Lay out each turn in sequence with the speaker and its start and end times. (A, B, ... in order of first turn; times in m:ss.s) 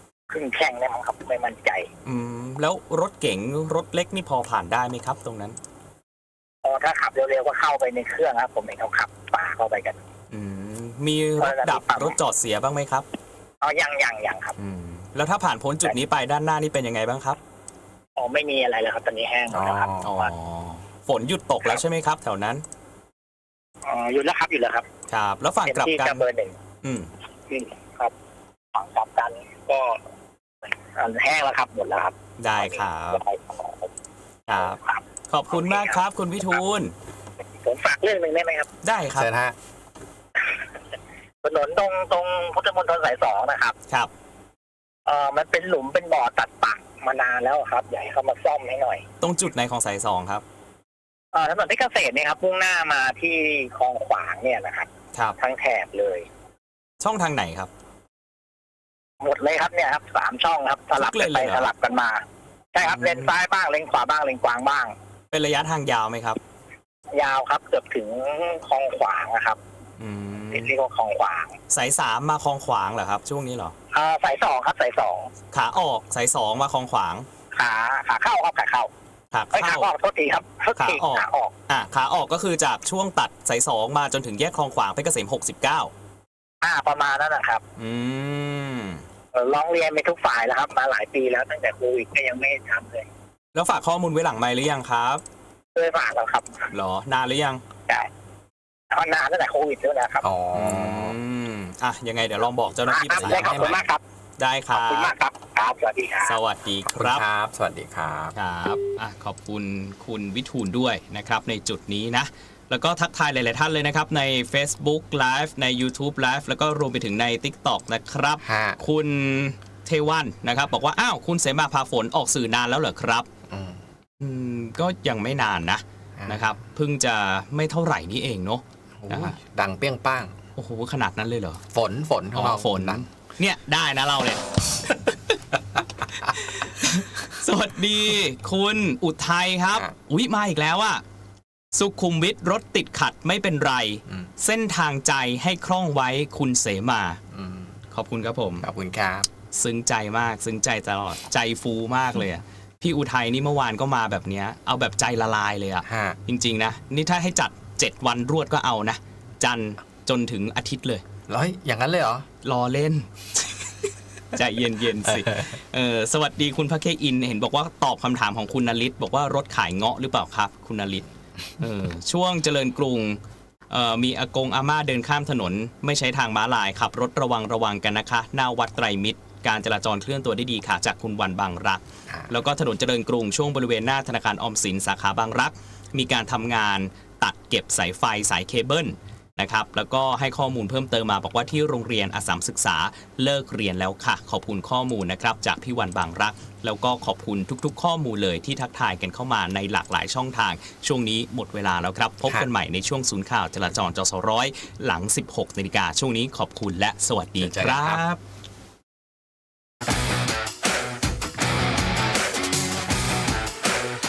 0:00.3-0:01.9 A
0:02.0-0:05.6 B
0:06.6-0:10.0 A
0:10.3-0:13.0 B
0:11.4-0:12.1 A
0:13.6-0:14.5 A
0:14.6-0:17.4 B
0:18.2-0:20.3 A
0:19.5-0:20.1 C
0:20.0-0:22.6 B
0:23.8-0:24.8 A
0:25.1-0:26.2 B
0:25.6-0:26.6 A
0:26.8-0:27.1 B
0:27.5-0:28.1 A
0:28.7-0:30.0 A
0:30.9-0:33.9 A
0:32.4-0:33.2 B
0:34.5-0:34.8 B
0:34.5-0:36.0 A
0:35.3-0:36.9 B
0:37.6-0:38.7 A
0:38.8-0:39.3 B
0:39.1-0:39.5 C
0:41.4-0:43.7 A
0:45.0-0:49.0 A
0:49.2-0:50.4 B
0:51.3-0:54.9 A
0:55.4-0:56.3 A
0:57.0-0:57.7 B
0:59.2-1:02.2 A
1:01.0-1:01.7 B
1:02.7-1:04.9 A
1:02.8-1:03.3 B
1:05.3-1:06.4 B
1:07.1-1:09.6 A
1:10.0-1:10.7 B
1:10.5-1:11.5 A
1:11.7-1:13.7 B
1:13.9-1:15.3 A
1:15.5-1:17.2 B
1:17.6-1:18.9 A
1:19.3-1:19.9 B
1:19.5-1:21.5 A
1:20.8-1:25.9 B
1:26.6-1:27.6 A
1:27.8-1:29.0 B
1:29.3-1:33.1 A
1:33.5-1:35.2 B
1:35.7-1:36.6 A
1:36.7-1:37.6 B
1:38.9-1:40.2 A
1:40.2-1:41.2 C
1:40.5-1:43.8 B
1:42.9-1:44.0 A
1:43.2-1:43.8 C
1:44.4-1:45.1 B
1:44.7-1:46.4 A
1:46.2-1:47.2 B
1:47.0-1:48.3 C
1:48.4-2:03.3 B
1:58.4-1:58.8 C
2:03.5-2:03.8 C
2:04.2-2:09.4 B
2:06.2-2:06.5 C
2:09.0-2:10.3 C
2:10.6-2:11.6 B
2:11.7-2:13.0 C
2:12.3-2:15.4 B
2:16.2-2:21.0 B
2:21.7-2:27.2 B
2:27.3-2:27.8 C
2:27.9-2:28.6 B
2:28.6-2:29.3 C
2:29.5-2:41.0 B
2:35.8-2:36.2 C
2:41.3-2:42.2 C
2:42.4-2:43.7 B
2:44.3-2:51.0 B
2:51.6-2:53.2 B
2:53.7-3:28.2 B
3:27.4-3:28.0 C